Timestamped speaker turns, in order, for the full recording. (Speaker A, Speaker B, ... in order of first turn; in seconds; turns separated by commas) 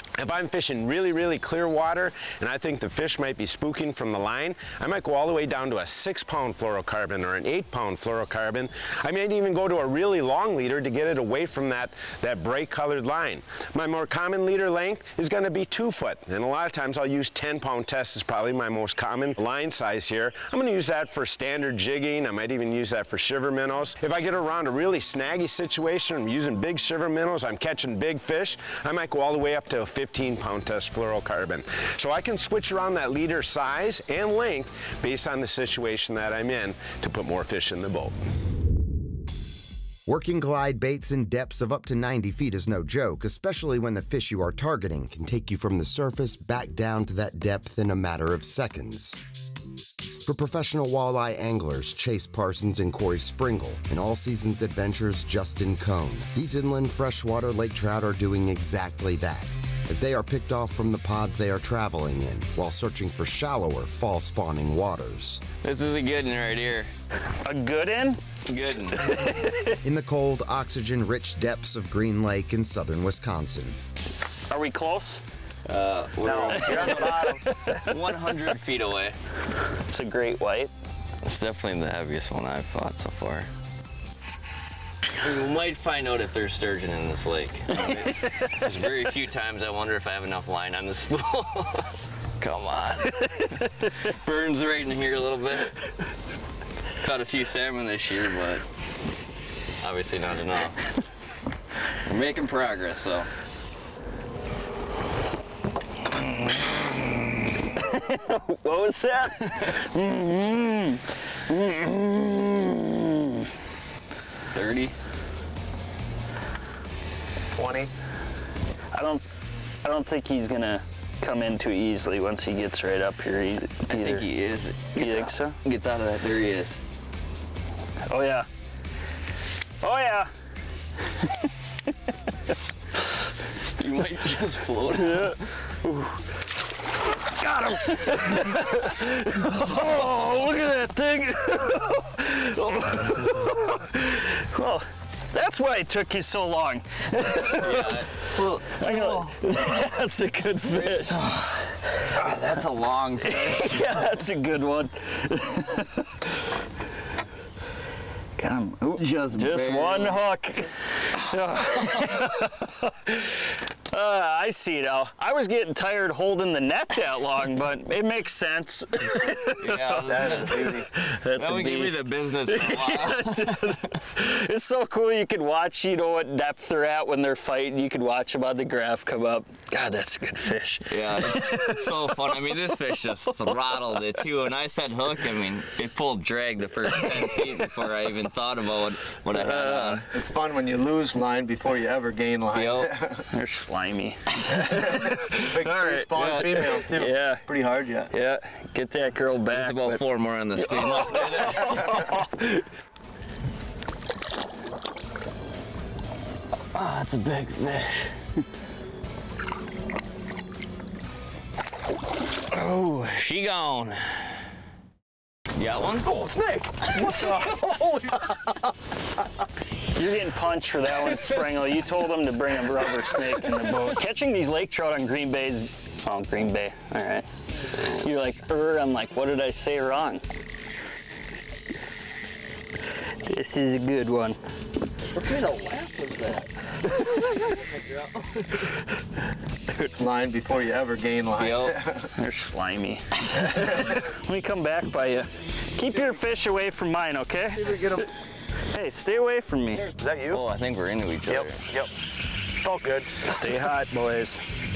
Speaker A: 0.2-38.1, Speaker B: 40.1-49.2, Speaker B: 50.1-65.4, Speaker C: 65.6-66.9, Speaker D: 67.4-68.2, Speaker C: 68.5-69.1, Speaker D: 69.0-69.8, Speaker B: 69.8-73.8, Speaker D: 74.5-75.2, Speaker C: 75.7-79.2, Speaker E: 76.2-77.5, Speaker D: 76.5-78.2, Speaker D: 79.9-80.7, Speaker C: 81.2-83.5, Speaker C: 85.2-95.8, Speaker C: 97.0-98.6, Speaker C: 99.8-100.8, Speaker C: 102.0-103.3, Speaker D: 107.8-113.5, Speaker C: 114.5-115.0, Speaker E: 117.6-117.9, Speaker D: 118.9-119.2, Speaker D: 119.8-124.2, Speaker C: 123.9-126.8, Speaker D: 125.0-125.6, Speaker D: 128.1-128.5, Speaker D: 129.8-130.3, Speaker C: 133.8-135.4, Speaker D: 134.9-136.2, Speaker D: 137.3-148.1, Speaker C: 147.4-149.3, Speaker D: 148.6-151.7, Speaker C: 150.7-151.3, Speaker C: 152.1-154.0, Speaker D: 153.2-156.1, Speaker D: 158.4-182.4, Speaker C: 159.0-160.2, Speaker C: 169.6-173.8, Speaker E: 170.1-170.9, Speaker C: 180.9-190.1, Speaker D: 189.3-190.1, Speaker E: 190.1-193.3, Speaker C: 192.5-192.9, Speaker D: 193.3-197.4, Speaker E: 194.6-198.1, Speaker C: 196.2-196.8, Speaker D: 198.1-200.0, Speaker C: 199.5-202.2, Speaker D: 200.6-202.6, Speaker C: 206.7-208.1, Speaker C: 212.5-214.3, Speaker C: 215.6-217.4, Speaker E: 216.2-218.6, Speaker D: 219.9-230.2, Speaker D: 233.3-234.4, Speaker C: 235.1-238.7, Speaker E: 240.0-242.1, Speaker C: 241.4-241.9, Speaker D: 242.2-248.1, Speaker E: 247.6-248.1, Speaker D: 248.7-249.9, Speaker E: 250.0-250.4, Speaker C: 250.3-251.6, Speaker E: 251.3-251.9, Speaker E: 252.6-253.1, Speaker D: 253.2-254.4